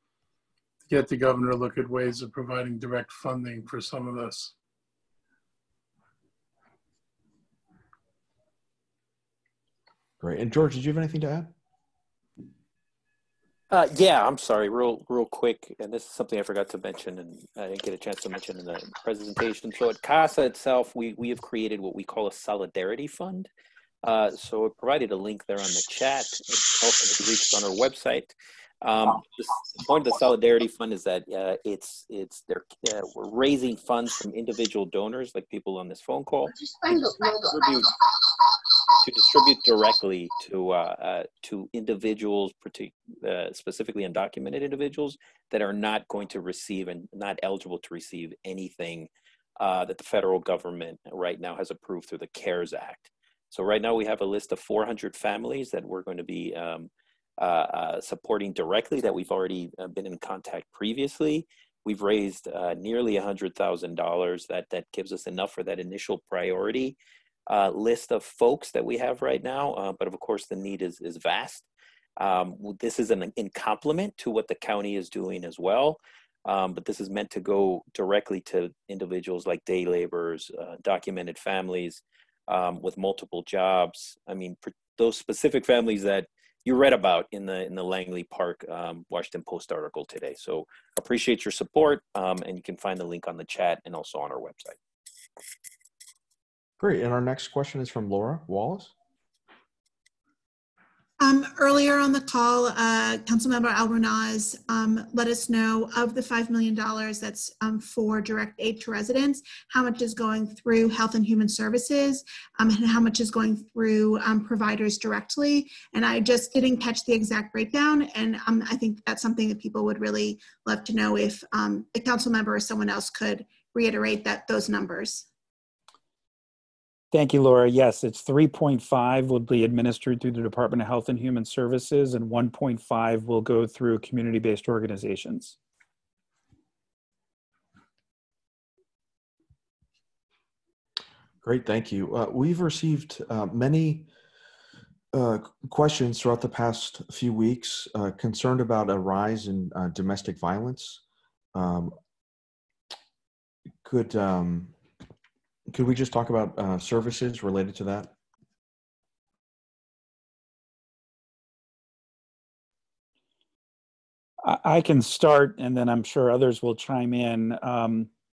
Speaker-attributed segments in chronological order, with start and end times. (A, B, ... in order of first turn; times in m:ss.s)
0:00.9-0:04.5 A
0:10.2-0:11.5 B
0:13.7-0:23.5 C
0:24.0-0:37.9 C
0:39.0-1:07.0 C
1:07.5-1:11.7 C
1:12.2-1:34.8 C
1:36.8-1:38.9 B
1:41.2-2:05.3 D
2:07.1-2:15.6 E
2:21.4-2:24.1 B
2:25.1-2:31.0 B
2:31.5-2:31.9 B
2:33.8-2:34.7 B
2:35.7-2:38.1 B
2:44.4-2:48.1 E